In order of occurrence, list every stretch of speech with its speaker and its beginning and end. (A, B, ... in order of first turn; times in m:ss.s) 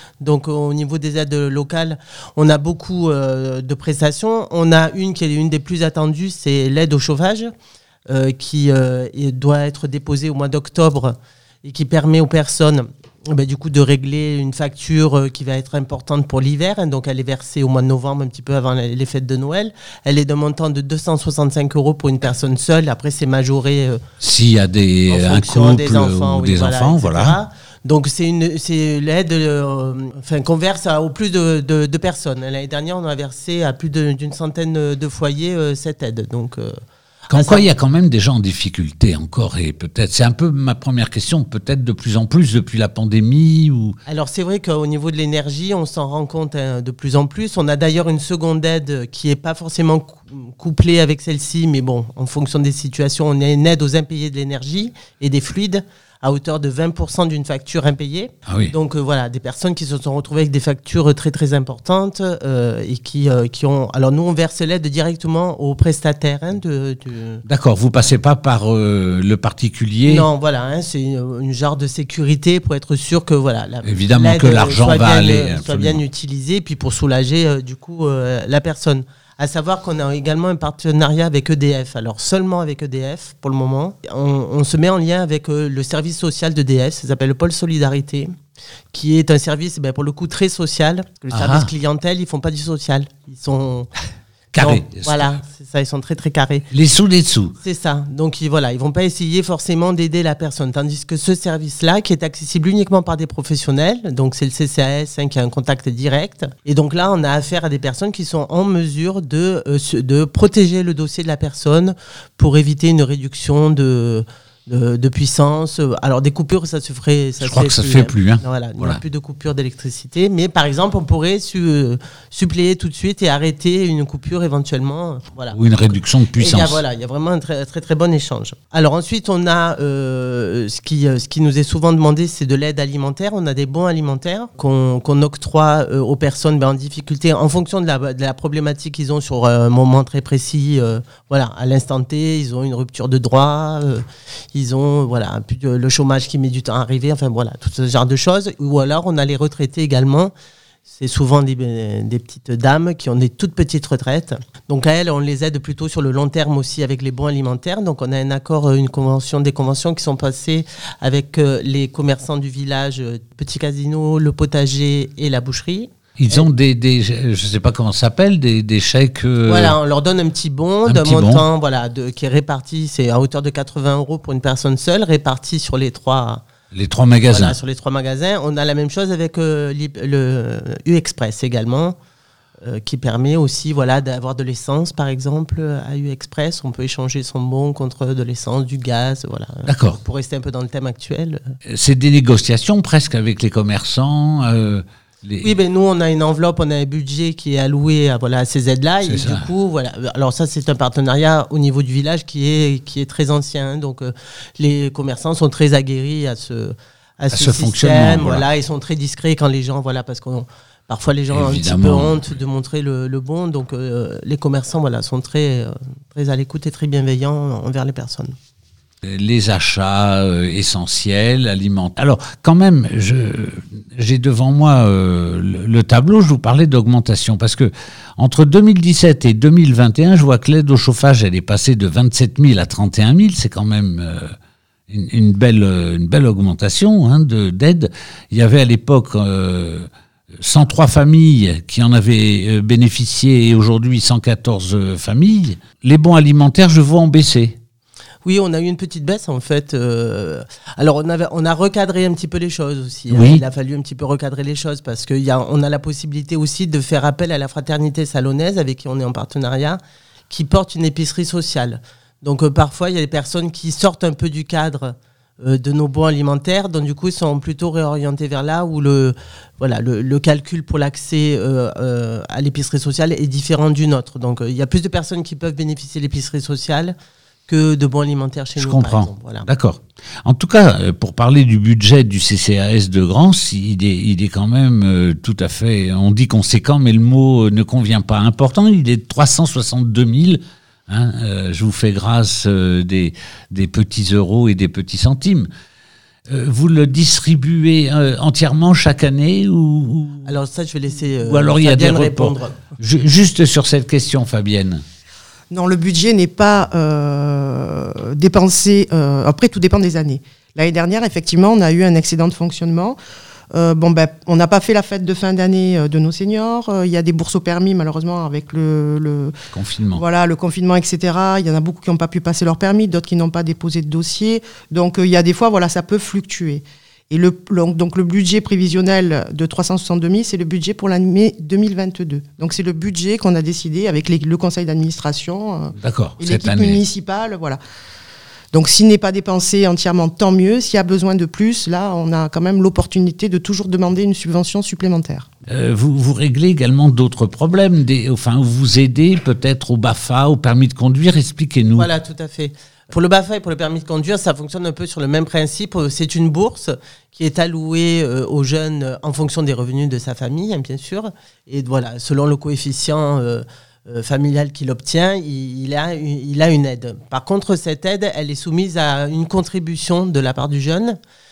0:00.2-0:07.5 A
0:08.1-0:24.0 A
0:24.2-0:27.4 B
0:25.1-0:36.7 A
0:37.3-0:37.6 A
0:37.3-0:44.0 B
0:44.1-1:07.4 A
0:58.5-0:58.7 B
1:07.5-1:10.3 B
1:10.1-1:28.3 A
1:13.8-1:16.0 B
1:28.9-1:33.9 A
1:31.3-1:31.7 B
1:34.5-1:35.4 B
1:34.6-1:36.7 A
1:36.7-1:37.5 B
1:37.6-2:30.3 A
1:57.4-1:59.0 B
2:05.5-2:06.8 B
2:30.9-2:46.5 A
2:46.2-2:49.8 B
2:49.5-2:56.4 A
2:50.9-2:51.4 B
2:56.7-2:57.6 B
2:57.3-3:02.0 A
3:02.6-3:11.6 A
3:09.7-3:10.0 B
3:11.7-3:15.5 B
3:15.4-3:38.4 A
3:19.0-3:19.5 B
3:27.3-3:28.5 B
3:31.3-3:32.2 B
3:39.0-3:54.3 B
3:54.9-3:59.9 B
4:00.4-4:07.6 B
4:08.2-4:19.8 A
4:13.1-4:13.4 B
4:20.3-4:37.0 A
4:37.5-4:39.5 A
4:38.6-4:55.5 B
4:56.3-5:00.3 B
5:00.2-5:02.6 A
5:01.2-5:04.8 B
5:05.5-5:13.0 C
5:13.5-5:19.3 C
5:19.5-5:20.0 B
5:20.0-5:37.6 C
5:35.8-5:36.8 B
5:38.5-5:45.3 C
5:45.5-5:51.9 B
5:51.8-6:11.0 A